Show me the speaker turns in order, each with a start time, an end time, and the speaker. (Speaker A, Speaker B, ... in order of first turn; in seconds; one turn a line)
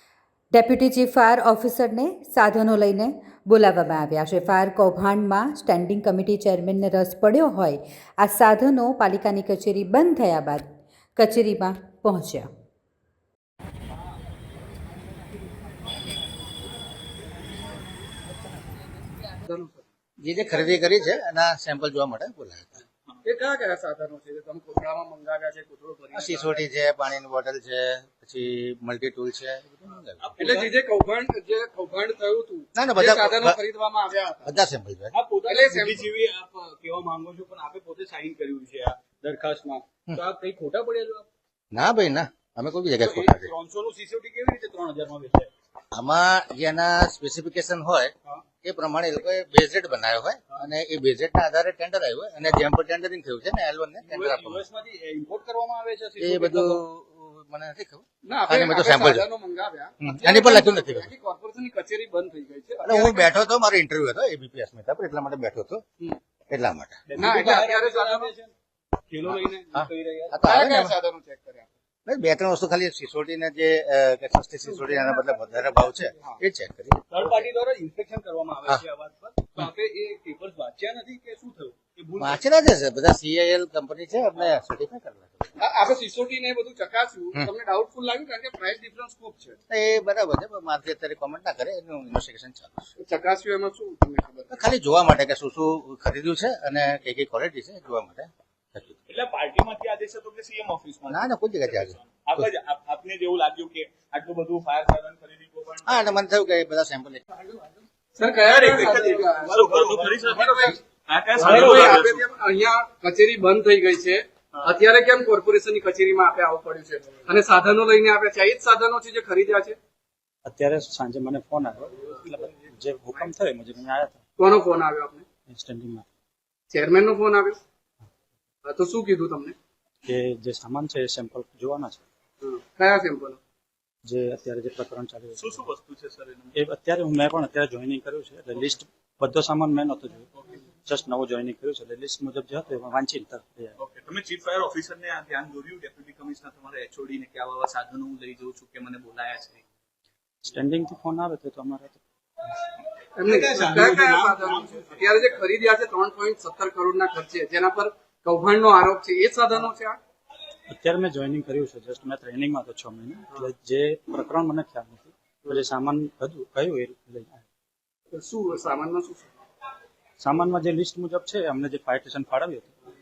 Speaker A: 0.5-12.5
Speaker B: 19.3-19.8
Speaker C: 20.2-22.7
Speaker B: 23.2-26.6
Speaker C: 26.1-30.2
Speaker D: 30.2-30.8
Speaker B: 30.4-34.5
Speaker C: 32.8-33.6
Speaker C: 34.4-35.1
Speaker D: 35.1-41.2
Speaker B: 35.4-36.1
Speaker C: 41.7-43.5
Speaker D: 43.0-45.5
Speaker C: 45.9-54.6
Speaker D: 54.0-56.8
Speaker C: 56.2-59.2
Speaker B: 58.2-63.3
Speaker C: 60.0-61.1
Speaker C: 62.8-65.8
Speaker C: 66.5-67.0
Speaker D: 67.1-68.5
Speaker B: 67.1-68.3
Speaker D: 69.1-70.4
Speaker C: 69.7-70.9
Speaker B: 70.4-71.7
Speaker C: 72.0-77.4
Speaker D: 77.1-82.4
Speaker C: 82.2-85.5
Speaker B: 85.6-89.6
Speaker C: 89.7-92.9
Speaker B: 93.0-94.7
Speaker C: 94.5-99.0
Speaker D: 99.1-106.0
Speaker C: 101.1-102.0
Speaker C: 105.8-107.2
Speaker B: 108.2-110.8
Speaker D: 108.4-112.3
Speaker B: 111.3-119.8
Speaker E: 120.4-124.2
Speaker B: 124.4-125.2
Speaker E: 125.5-126.0
Speaker B: 126.7-127.6
Speaker B: 128.6-129.5
Speaker E: 130.0-132.0
Speaker B: 132.4-133.4
Speaker E: 134.0-135.6
Speaker D: 135.3-136.5
Speaker E: 136.6-140.3
Speaker E: 140.9-143.7
Speaker D: 143.8-149.6
Speaker E: 150.4-152.0
Speaker B: 153.2-160.0
Speaker D: 153.2-155.3
Speaker E: 160.7-167.4
Speaker B: 168.1-169.3
Speaker E: 170.2-172.7